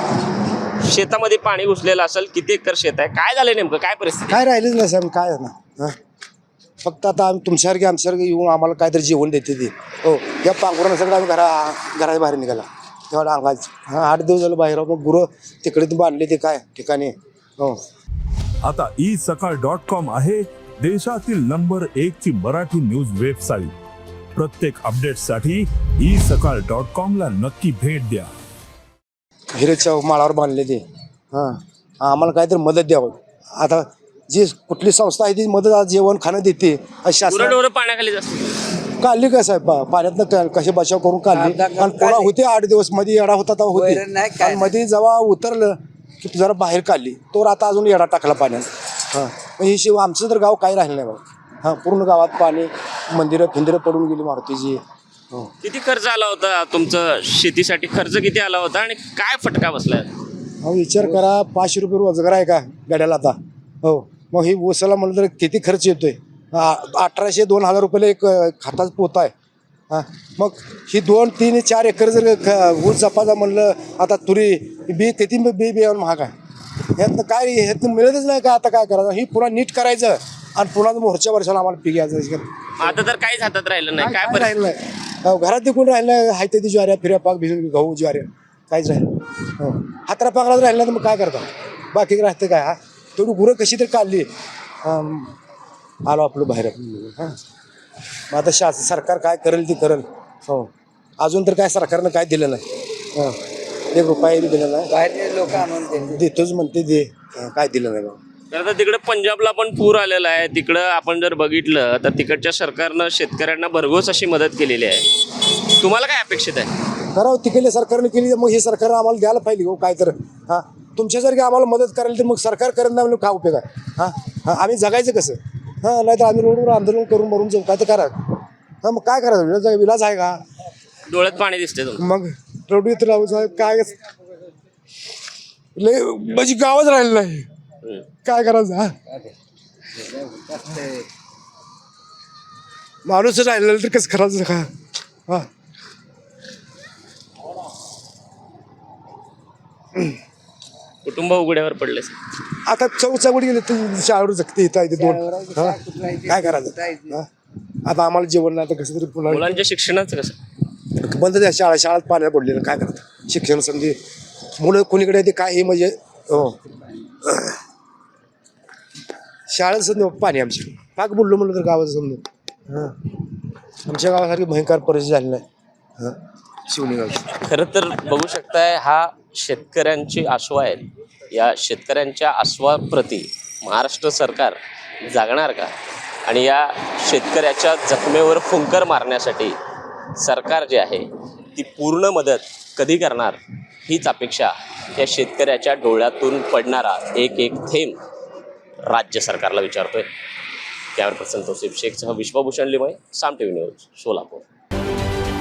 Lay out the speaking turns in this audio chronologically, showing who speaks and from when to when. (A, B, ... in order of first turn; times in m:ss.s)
0:00.8-0:04.4 A
0:04.3-0:06.0 B
0:06.8-0:17.8 B
0:18.6-0:23.7 C
0:24.3-0:28.3 C
0:29.5-0:37.6 B
0:37.3-0:38.5 A
0:39.0-0:54.8 B
0:41.3-0:42.3 D
0:43.7-0:44.7 D
0:55.6-1:00.1 A
1:00.6-1:09.3 B
1:09.9-1:16.3 B
1:17.0-1:22.9 B
1:22.8-1:24.5 A
1:24.0-1:34.3 B
1:34.8-1:35.3 B
1:36.0-1:37.4 B
1:38.3-1:42.6 B
1:43.9-1:44.9 B
1:44.9-1:46.2 D
1:46.0-1:48.2 B
1:48.5-1:55.0 A
1:55.7-1:56.7 A
1:57.1-2:10.4 B
2:11.1-2:12.0 A
2:12.0-2:14.0 B
2:15.8-2:17.5 B
2:18.2-2:18.9 B
2:20.0-2:21.0 D
2:23.0-2:24.7 B
2:31.0-2:32.1 A
2:32.6-2:37.3 B
2:35.0-2:37.2 D
2:37.8-2:39.6 B
2:39.3-2:40.4 A
2:41.0-2:44.0 B
2:44.6-2:46.6 B
2:47.2-2:47.6 B
2:49.5-2:53.1 B
2:53.9-2:55.4 B
2:56.0-2:57.3 B
2:57.4-3:05.7 A
3:06.2-3:09.6 A
3:10.2-3:18.0 A
3:18.9-3:20.1 A
3:20.9-3:24.4 A